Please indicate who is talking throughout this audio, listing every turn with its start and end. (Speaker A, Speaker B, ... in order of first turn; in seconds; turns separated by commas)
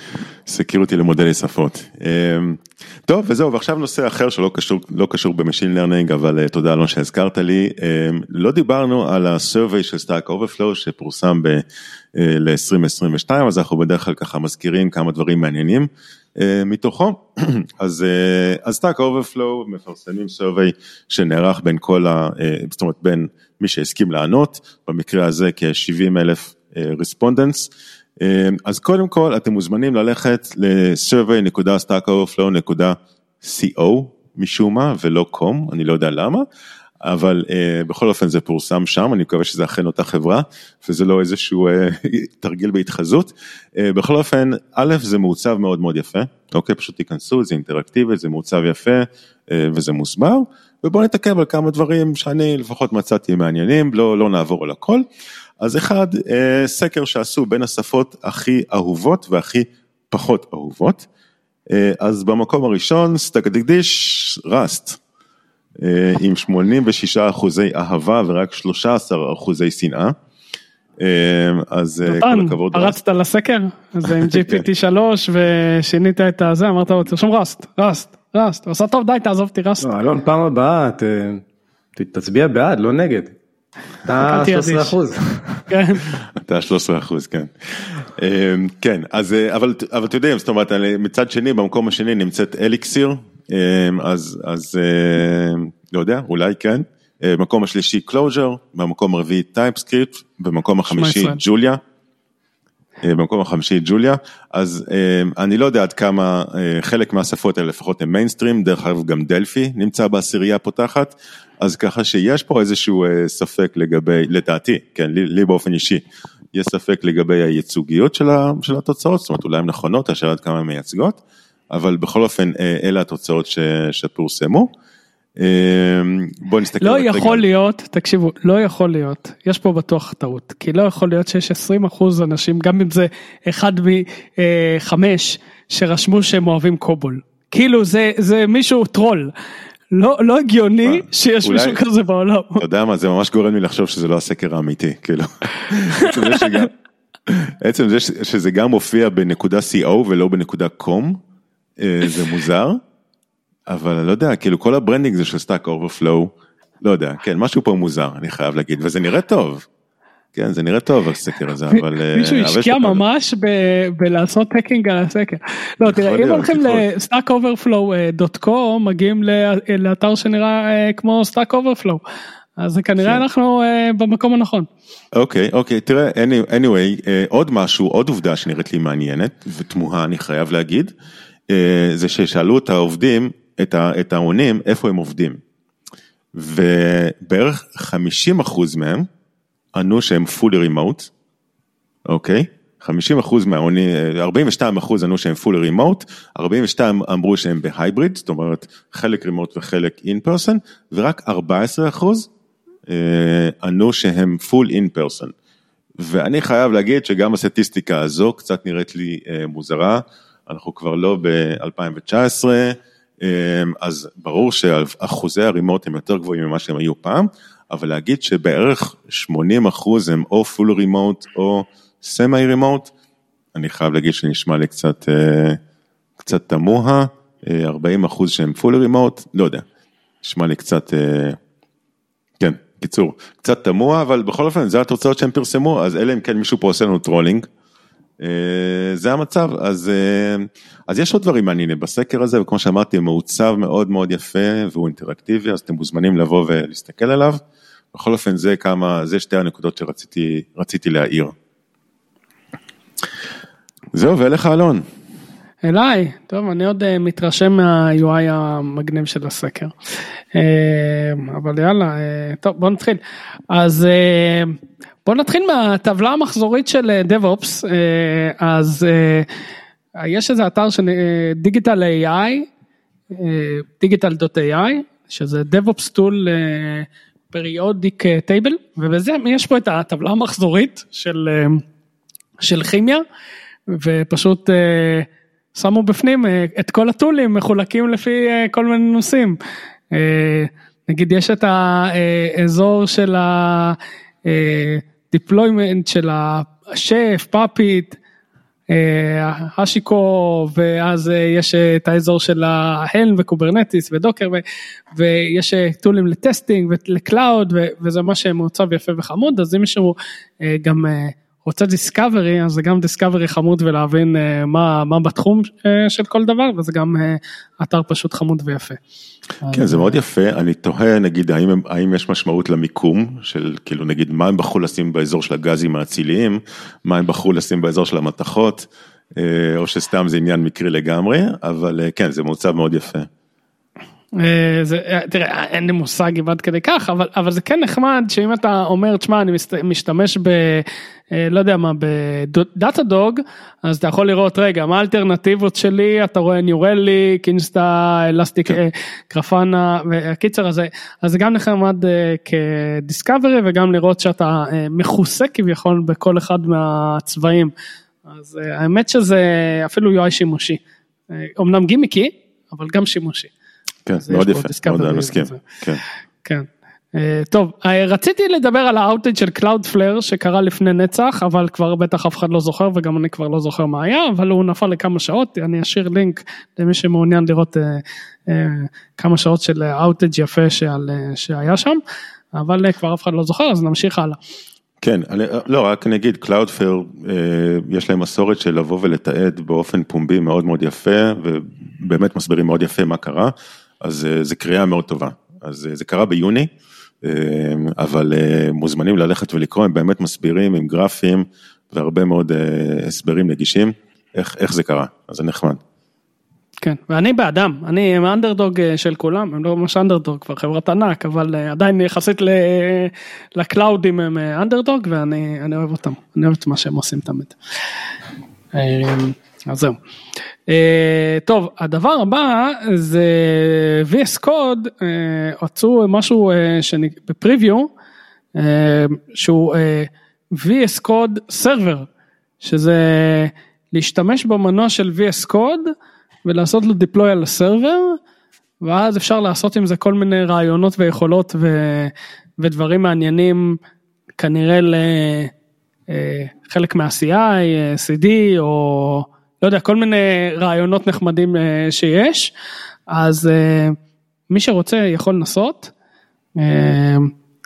Speaker A: 0.5-11.6, Speaker A: 12.1-36.4, Speaker A: 37.0-55.0, Speaker A: 55.6-61.0, Speaker A: 61.7-65.0, Speaker A: 65.8-70.1, Speaker A: 71.0-73.0, Speaker B: 72.0-79.9, Speaker A: 74.1-74.6, Speaker C: 79.8-81.4, Speaker C: 82.0-83.3, Speaker C: 84.0-85.6, Speaker B: 84.2-84.9, Speaker B: 85.7-86.1, Speaker A: 86.3-101.8, Speaker B: 100.9-101.4, Speaker A: 103.0-121.2, Speaker A: 121.7-124.7, Speaker A: 125.4-127.4, Speaker B: 126.8-139.3, Speaker B: 139.9-142.6, Speaker A: 140.8-141.8, Speaker A: 142.6-146.7, Speaker A: 147.3-151.2, Speaker A: 151.8-152.8, Speaker A: 153.7-159.7, Speaker A: 160.3-163.0, Speaker B: 161.7-172.0, Speaker A: 165.8-166.8, Speaker B: 172.6-174.7, Speaker A: 175.1-180.9, Speaker A: 181.5-185.4, Speaker A: 186.3-189.1, Speaker A: 189.7-191.1, Speaker A: 192.1-202.3, Speaker A: 202.9-205.3, Speaker A: 206.0-222.9, Speaker A: 223.5-225.6, Speaker A: 226.2-229.6, Speaker A: 230.2-231.4, Speaker A: 232.4-237.5, Speaker A: 238.2-247.4, Speaker A: 247.9-251.3, Speaker A: 253.9-254.8, Speaker B: 255.6-259.7, Speaker B: 260.3-263.0, Speaker B: 263.5-269.2, Speaker B: 270.0-272.5, Speaker B: 273.1-281.6, Speaker B: 282.4-283.0, Speaker B: 283.7-289.4, Speaker B: 289.9-298.0, Speaker B: 298.7-304.4, Speaker B: 304.9-318.8, Speaker B: 319.4-319.9, Speaker A: 319.5-333.1, Speaker B: 334.1-357.5, Speaker B: 358.1-360.6, Speaker B: 361.1-363.3, Speaker A: 363.9-365.8, Speaker B: 364.0-365.4, Speaker B: 366.2-381.8, Speaker B: 382.3-384.2, Speaker A: 384.8-396.5, Speaker A: 397.0-405.6, Speaker B: 406.6-417.3, Speaker B: 418.5-419.8, Speaker B: 420.5-427.7, Speaker B: 428.4-431.9, Speaker B: 432.4-435.7, Speaker B: 436.2-438.0, Speaker B: 438.6-443.6, Speaker B: 444.2-445.3, Speaker B: 445.9-452.3, Speaker B: 452.9-453.8, Speaker B: 454.3-455.7, Speaker B: 456.4-457.1